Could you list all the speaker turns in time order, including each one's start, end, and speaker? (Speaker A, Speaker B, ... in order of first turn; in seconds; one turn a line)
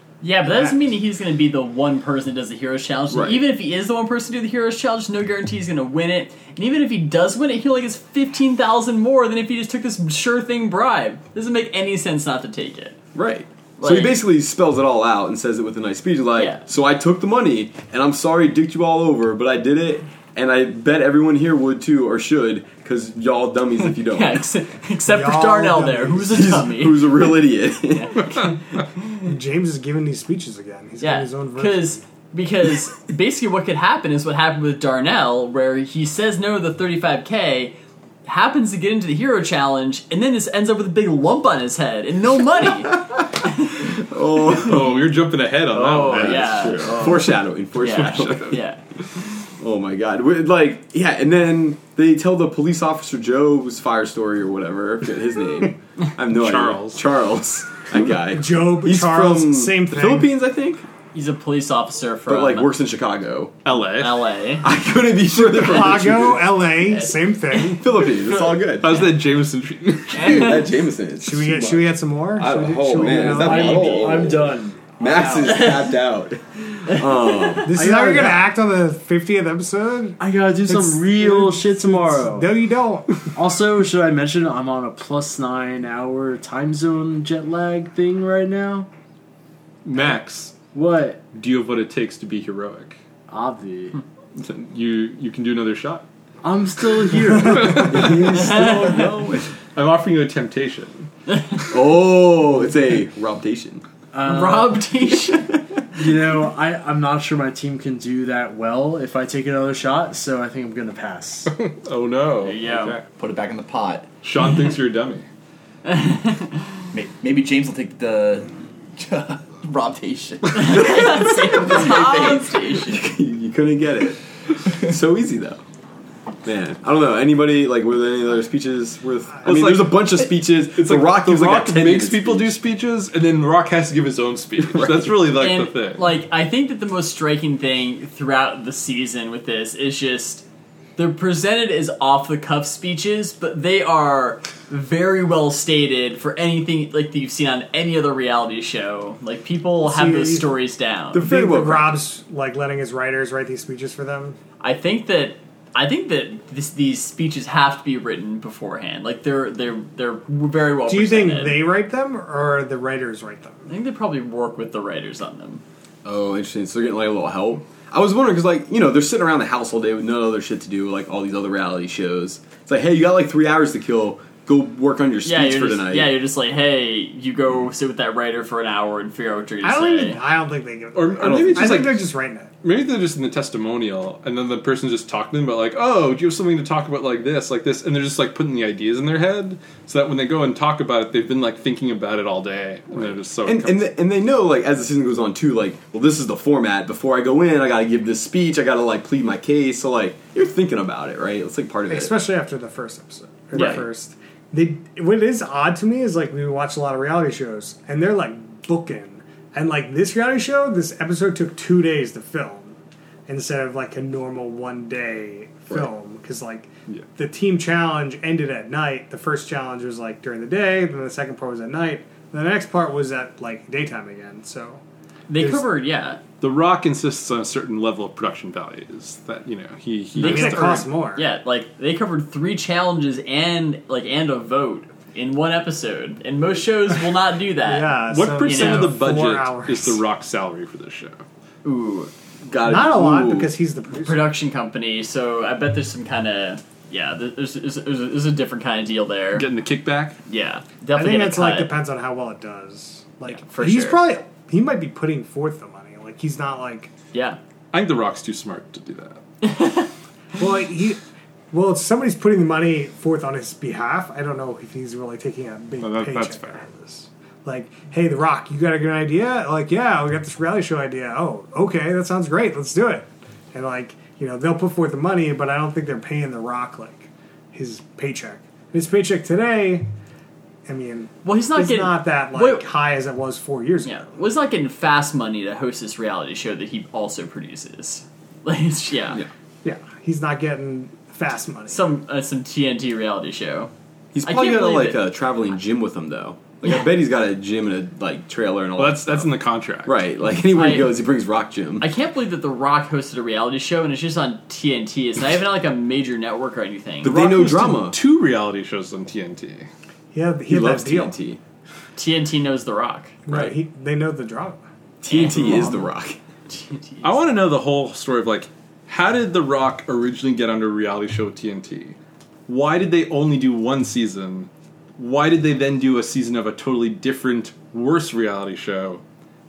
Speaker A: 0.2-13.0
Speaker B: 0.4-0.8
Speaker C: 3.1-3.4
Speaker C: 13.1-24.5
Speaker A: 13.8-14.2
Speaker A: 16.4-16.6
Speaker A: 24.0-27.3
Speaker B: 25.1-26.6
Speaker C: 26.3-28.5
Speaker A: 27.9-28.5
Speaker B: 29.2-32.0
Speaker A: 31.0-43.7
Speaker C: 42.9-45.1
Speaker D: 44.5-47.1
Speaker E: 45.7-47.2
Speaker A: 45.8-47.1
Speaker C: 46.0-48.6
Speaker A: 47.8-48.8
Speaker D: 48.1-48.5
Speaker C: 49.6-60.8
Speaker D: 56.3-57.1
Speaker B: 58.2-60.3
Speaker A: 61.1-62.7
Speaker C: 62.3-63.5
Speaker D: 63.6-64.2
Speaker A: 64.0-64.7
Speaker C: 64.6-66.7
Speaker B: 65.3-67.9
Speaker A: 66.9-67.2
Speaker C: 67.6-69.0
Speaker D: 68.8-70.6
Speaker A: 70.2-70.5
Speaker C: 70.2-77.8
Speaker B: 71.2-74.1
Speaker E: 72.4-75.7
Speaker A: 73.5-74.0
Speaker B: 77.6-83.3
Speaker E: 77.7-78.5
Speaker E: 80.2-82.7
Speaker E: 83.3-88.9
Speaker D: 89.8-90.5
Speaker E: 90.7-91.2
Speaker D: 91.3-93.0
Speaker E: 93.3-94.0
Speaker D: 94.3-96.1
Speaker E: 96.4-98.1
Speaker D: 97.2-98.5
Speaker C: 97.6-99.5
Speaker B: 97.7-98.1
Speaker A: 98.2-99.1
Speaker D: 99.7-101.1
Speaker C: 101.7-103.8
Speaker E: 104.1-104.9
Speaker A: 104.2-105.5
Speaker C: 105.3-105.6
Speaker E: 105.9-111.5
Speaker D: 111.5-113.0
Speaker A: 112.4-113.0
Speaker F: 113.1-114.1
Speaker D: 114.2-115.2
Speaker A: 115.8-116.6
Speaker F: 116.9-122.6
Speaker A: 120.5-123.0
Speaker C: 122.8-124.2
Speaker F: 124.7-124.9
Speaker C: 124.8-125.6
Speaker C: 126.4-132.6
Speaker D: 129.4-136.1
Speaker C: 134.6-135.3
Speaker A: 135.4-140.4
Speaker A: 141.0-151.2
Speaker B: 149.8-150.6
Speaker C: 151.1-152.0
Speaker B: 151.1-154.4
Speaker A: 154.6-161.7
Speaker B: 160.9-163.7
Speaker A: 163.7-165.6
Speaker C: 166.1-176.1
Speaker A: 175.2-180.2
Speaker B: 179.6-182.5
Speaker D: 180.9-182.1
Speaker C: 181.2-182.0
Speaker D: 182.6-193.9
Speaker C: 193.0-202.1
Speaker B: 201.9-212.8
Speaker A: 203.5-203.8
Speaker B: 213.3-224.8
Speaker A: 225.3-226.2
Speaker B: 225.4-225.7
Speaker D: 226.4-230.9
Speaker B: 230.2-231.3
Speaker A: 230.2-239.0
Speaker B: 237.6-240.0
Speaker D: 238.1-241.2
Speaker A: 241.6-242.1
Speaker C: 242.5-243.5
Speaker B: 242.6-244.3
Speaker A: 243.9-249.5
Speaker D: 249.3-250.2
Speaker A: 250.3-251.8
Speaker B: 250.9-256.9
Speaker A: 253.2-254.0
Speaker A: 257.1-257.4
Speaker D: 257.7-259.2
Speaker A: 259.4-259.9
Speaker B: 260.4-261.0
Speaker B: 261.5-279.9
Speaker D: 265.8-266.6
Speaker B: 280.6-284.2
Speaker A: 281.2-282.7
Speaker A: 283.9-289.2
Speaker B: 289.6-291.9
Speaker A: 291.7-293.7
Speaker C: 294.1-299.3
Speaker A: 294.2-295.0
Speaker D: 298.8-300.0
Speaker C: 299.9-301.9
Speaker A: 300.5-300.9
Speaker A: 301.8-307.1
Speaker C: 307.0-308.0
Speaker D: 307.0-309.7
Speaker B: 310.1-311.1
Speaker C: 310.5-311.4
Speaker A: 312.0-313.1
Speaker B: 313.3-314.6
Speaker C: 313.3-313.5
Speaker C: 315.0-316.2
Speaker A: 315.1-315.9
Speaker A: 316.5-317.1
Speaker D: 317.0-322.0
Speaker D: 322.5-329.0